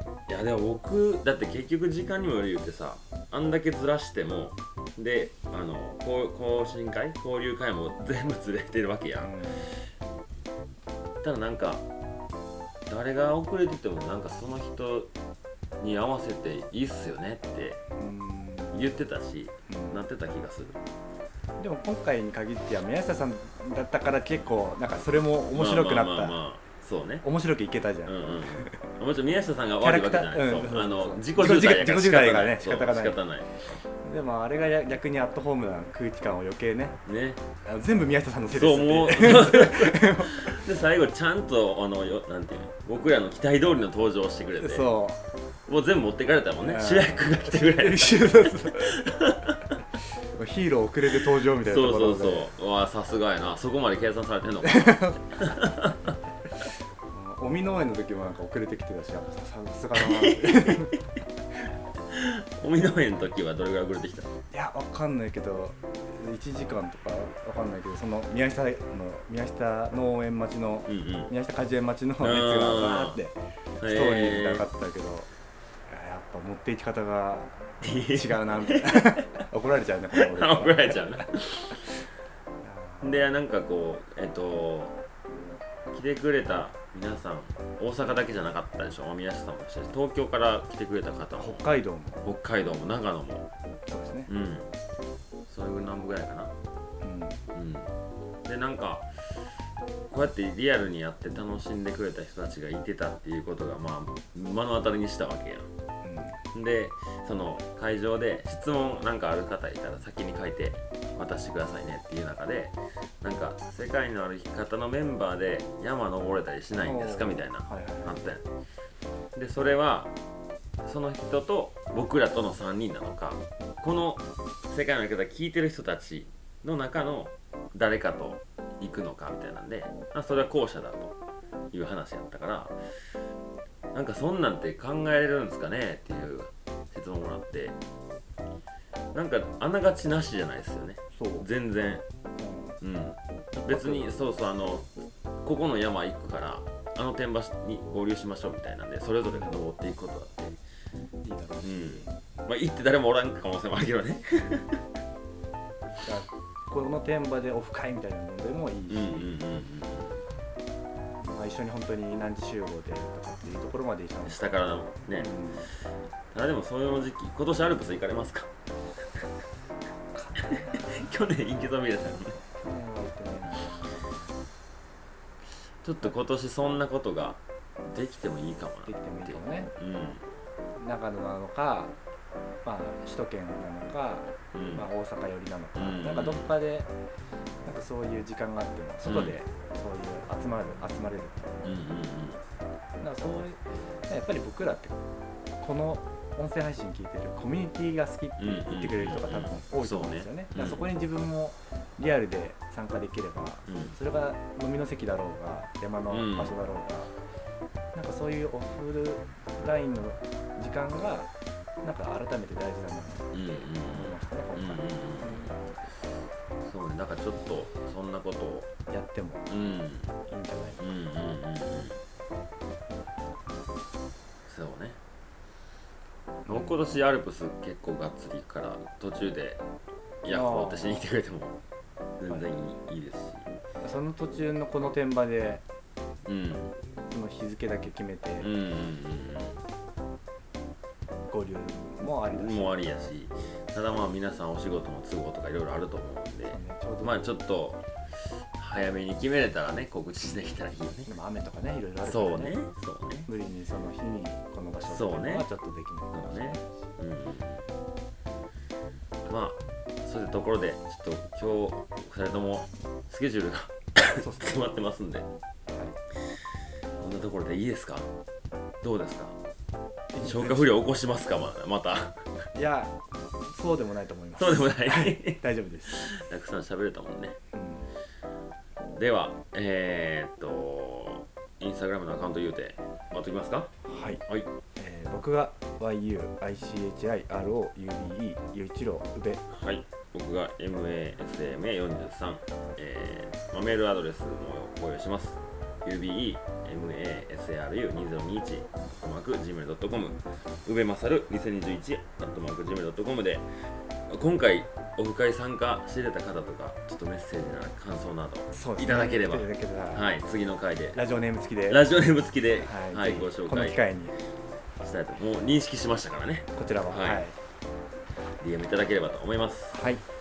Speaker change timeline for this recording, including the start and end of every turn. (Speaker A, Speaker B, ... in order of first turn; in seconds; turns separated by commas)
Speaker A: 0.3-9.4, Speaker B: 9.2-9.7, Speaker A: 11.2-11.8, Speaker A: 12.9-15.1, Speaker A: 15.8-17.8, Speaker B: 18.0-18.8, Speaker A: 18.7-20.8, Speaker B: 19.7-20.0, Speaker B: 21.6-26.4, Speaker A: 25.5-27.2, Speaker B: 27.2-28.9, Speaker A: 28.0-33.6, Speaker B: 29.8-33.2, Speaker B: 33.9-37.0, Speaker A: 37.0-37.4, Speaker B: 37.6-40.6, Speaker A: 38.5-44.9, Speaker B: 44.6-45.2, Speaker A: 45.7-49.8, Speaker B: 46.6-49.0, Speaker B: 50.3-52.5, Speaker A: 51.5-56.1, Speaker B: 54.6-55.3, Speaker B: 57.1-61.0, Speaker A: 60.0-60.9, Speaker A: 62.1-64.3, Speaker B: 64.5-75.3, Speaker A: 70.9-71.3, Speaker A: 72.2-73.2, Speaker A: 73.8-74.7, Speaker B: 75.9-81.3, Speaker A: 77.8-79.2, Speaker A: 80.2-81.9, Speaker B: 82.6-83.3, Speaker A: 83.0-85.0, Speaker A: 85.9-91.6, Speaker B: 91.4-92.2, Speaker A: 92.2-93.5, Speaker B: 93.9-94.3, Speaker A: 94.3-94.7, Speaker A: 95.5-96.5, Speaker B: 97.0-97.4, Speaker A: 97.5-97.9, Speaker A: 98.4-99.4, Speaker A: 100.1-105.7, Speaker B: 106.0-106.4, Speaker A: 106.5-118.5, Speaker B: 116.8-118.2, Speaker A: 119.3-120.1, Speaker A: 120.8-131.1, Speaker A: 131.7-132.8, Speaker A: 133.9-137.8, Speaker A: 139.1-142.0, Speaker B: 141.1-141.5, Speaker B: 142.4-142.8, Speaker A: 142.8-150.6, Speaker B: 143.6-144.1, Speaker B: 149.2-149.6, Speaker B: 151.2-152.2, Speaker A: 151.6-154.8, Speaker B: 156.0-159.4, Speaker A: 158.9-160.2, Speaker B: 161.2-164.5, Speaker A: 164.3-165.3, Speaker B: 165.2-165.7, Speaker A: 166.3-168.5, Speaker B: 170.1-171.1, Speaker A: 170.4-172.4, Speaker B: 172.6-174.4, Speaker A: 175.8-180.2, Speaker B: 178.8-179.7, Speaker B: 180.8-181.9, Speaker B: 182.6-186.9, Speaker A: 184.5-184.8, Speaker A: 185.8-186.5, Speaker B: 187.6-191.7, Speaker A: 189.0-189.4, Speaker A: 191.6-192.4, Speaker B: 193.0-195.0, Speaker B: 195.6-207.1, Speaker A: 198.4-200.9, Speaker A: 203.7-203.9, Speaker A: 206.1-206.5, Speaker B: 207.9-211.3, Speaker B: 211.8-215.8, Speaker A: 213.3-215.6, Speaker A: 216.6-218.7, Speaker B: 218.9-219.5, Speaker A: 219.5-220.1, Speaker B: 220.3-220.9, Speaker A: 220.8-222.0, Speaker A: 224.4-225.0, Speaker B: 226.4-226.8, Speaker A: 226.5-229.6, Speaker A: 230.2-231.6, Speaker B: 230.3-231.1, Speaker A: 232.2-233.5, Speaker B: 233.8-235.6, Speaker A: 236.2-236.7, Speaker B: 237.1-238.5, Speaker A: 238.4-239.6, Speaker B: 241.3-242.7, Speaker A: 242.3-247.8, Speaker B: 246.5-247.2, Speaker A: 248.5-251.1, Speaker B: 251.1-252.6, Speaker A: 252.0-253.3, Speaker B: 253.2-256.8, Speaker A: 254.9-255.5, Speaker A: 256.1-257.6, Speaker A: 259.2-265.3, Speaker B: 264.1-264.6, Speaker B: 265.7-266.0, Speaker A: 267.0-268.1, Speaker A: 268.8-269.4, Speaker B: 270.1-270.7, Speaker A: 270.2-272.2, Speaker B: 272.5-276.0, Speaker A: 274.4-277.4, Speaker B: 277.5-277.9, Speaker A: 278.9-283.7, Speaker B: 283.8-284.2, Speaker B: 284.8-289.4, Speaker A: 289.5-303.5, Speaker A: 304.1-311.0, Speaker B: 308.5-310.1, Speaker B: 310.9-311.8, Speaker A: 311.7-313.8, Speaker B: 312.6-314.2, Speaker A: 314.8-317.2, Speaker B: 316.5-317.3, Speaker A: 318.4-319.8, Speaker B: 319.7-320.0